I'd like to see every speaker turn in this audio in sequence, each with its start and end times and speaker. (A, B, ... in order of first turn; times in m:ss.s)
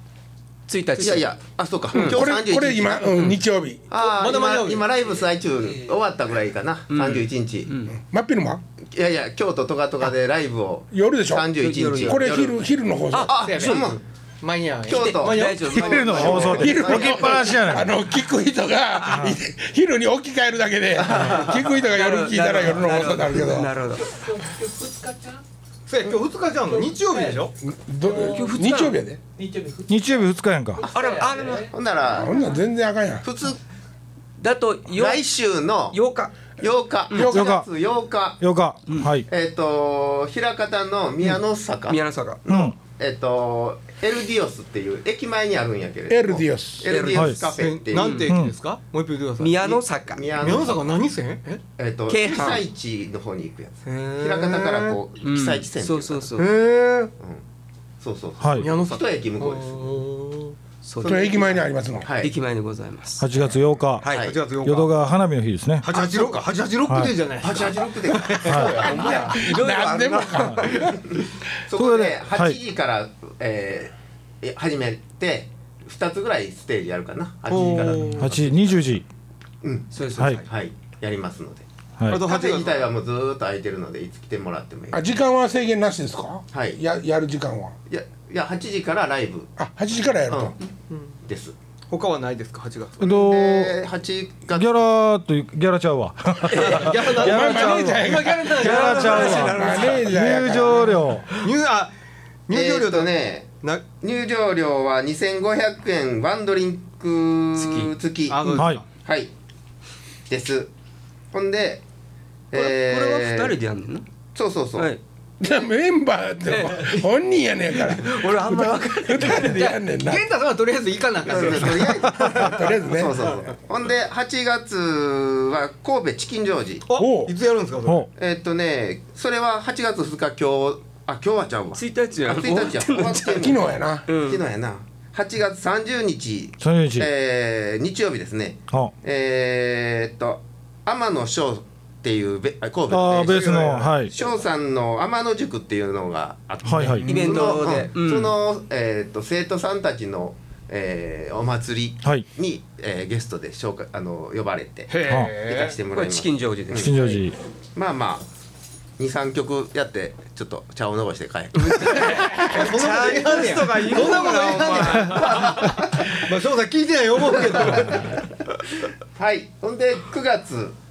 0:00.7-0:01.3 A
0:01.0-0:03.3 B
0:01.9-0:02.2 A
0:01.9-0:03.8 C
0:03.9-0:07.7 B
0:04.0-0:04.9 D
0:06.9-0:08.0 A
0:08.0-0:08.6 C
0:08.8-0:12.6 B
0:10.9-0:13.4 C
0:11.6-0:12.5 A
0:13.1-0:13.9 A
0:13.1-0:14.0 B
0:13.4-0:16.6 D
0:14.8-0:17.8 B
0:14.9-0:17.0 A
0:15.7-0:17.9 E
0:16.6-0:23.7 C
0:19.1-0:19.3 A
0:21.0-0:24.1 A
0:21.1-0:21.4 B
0:25.9-0:27.5 D
0:27.6-0:29.2 C
0:28.2-0:29.0 A
0:29.8-0:30.9 E
0:30.8-0:31.7 A
0:30.8-0:32.4 B
0:32.1-0:33.2 C
0:33.2-0:33.6 B
0:34.4-0:35.2 A
0:34.9-0:36.0 B
0:35.9-0:36.5 A
0:36.6-0:38.4 B
0:37.1-0:37.4 A
0:37.2-0:37.7 E
0:38.4-0:39.3 E
0:39.3-0:48.2 B
0:41.9-0:42.4 A
0:42.5-0:42.8 E
0:46.1-0:46.9 C
0:46.9-0:48.3 A
0:47.1-0:47.4 E
0:47.5-0:49.8 D
0:48.2-0:48.5 E
0:49.4-0:50.6 A
0:49.6-0:51.0 B
0:50.4-0:51.6 D
0:51.8-0:56.4 B
0:52.1-0:52.6 A
0:53.8-0:55.0 D
0:55.2-0:56.5 A
0:56.4-0:57.1 D
0:57.2-0:57.4 B
0:58.0-1:00.0 B
0:58.4-0:58.7 E
0:58.6-1:00.6 D
1:00.8-1:01.5 A
1:01.0-1:02.3 B
1:01.0-1:02.1 C
1:02.2-1:03.3 A
1:03.2-1:04.0 E
1:04.0-1:04.4 B
1:04.0-1:04.3 A
1:04.1-1:05.1 D
1:04.6-1:05.9 E
1:05.8-1:09.2 D
1:05.9-1:06.4 B
1:06.9-1:07.2 E
1:07.4-1:09.2 B
1:08.5-1:10.8 A
1:08.7-1:11.3 C
1:10.7-1:18.9 B
1:11.7-1:12.6 E
1:17.5-1:18.3 D
1:18.2-1:19.0 E
1:19.6-1:25.1 B
1:19.9-1:20.4 A
1:20.1-1:20.4 E
1:22.0-1:22.2 E
1:22.1-1:22.8 D
1:24.9-1:27.7 C
1:26.5-1:26.8 B
1:27.9-1:29.5 B
1:29.6-1:30.5 C
1:30.3-1:30.6 B
1:30.9-1:31.2 D
1:31.2-1:31.5 B
1:31.9-1:33.1 D
1:33.0-1:33.8 E
1:33.0-1:34.8 B
1:34.5-1:38.1 E
1:36.5-1:37.0 A
1:36.5-1:41.9 D
1:37.1-1:41.1 C
1:38.4-1:40.0 A
1:38.6-1:41.4 E
1:42.5-1:43.8 D
1:42.5-1:43.5 B
1:44.0-1:49.3 B
1:47.6-1:47.9 A
1:48.3-1:48.8 D
1:48.5-1:48.8 E
1:50.3-1:50.7 B
1:51.3-1:51.8 B
1:52.5-1:53.6 B
1:52.5-1:54.0 A
1:54.3-1:54.9 B
1:54.8-1:55.0 A
1:55.4-2:00.2 C
1:56.5-1:57.0 A
1:57.8-1:59.7 A
1:59.2-2:02.8 D
2:01.2-2:06.8 B
2:02.3-2:03.4 C
2:06.9-2:08.0 D
2:07.0-2:07.3 C
2:08.2-2:37.1 B
2:11.7-2:14.4 A
2:13.3-2:14.1 C
2:16.6-2:17.1 E
2:22.9-2:24.1 E
2:23.2-2:24.1 D
2:26.6-2:27.1 E
2:26.9-2:27.3 D
2:27.0-2:28.3 A
2:27.1-2:27.6 C
2:34.9-2:35.8 D
2:35.1-2:35.3 E
2:35.9-2:37.2 A
2:36.7-2:37.4 E
2:37.7-2:38.3 B
2:39.0-2:42.8 B
2:41.7-2:48.2 D
2:41.7-2:45.7 A
2:44.7-2:46.1 B
2:49.1-2:50.8 B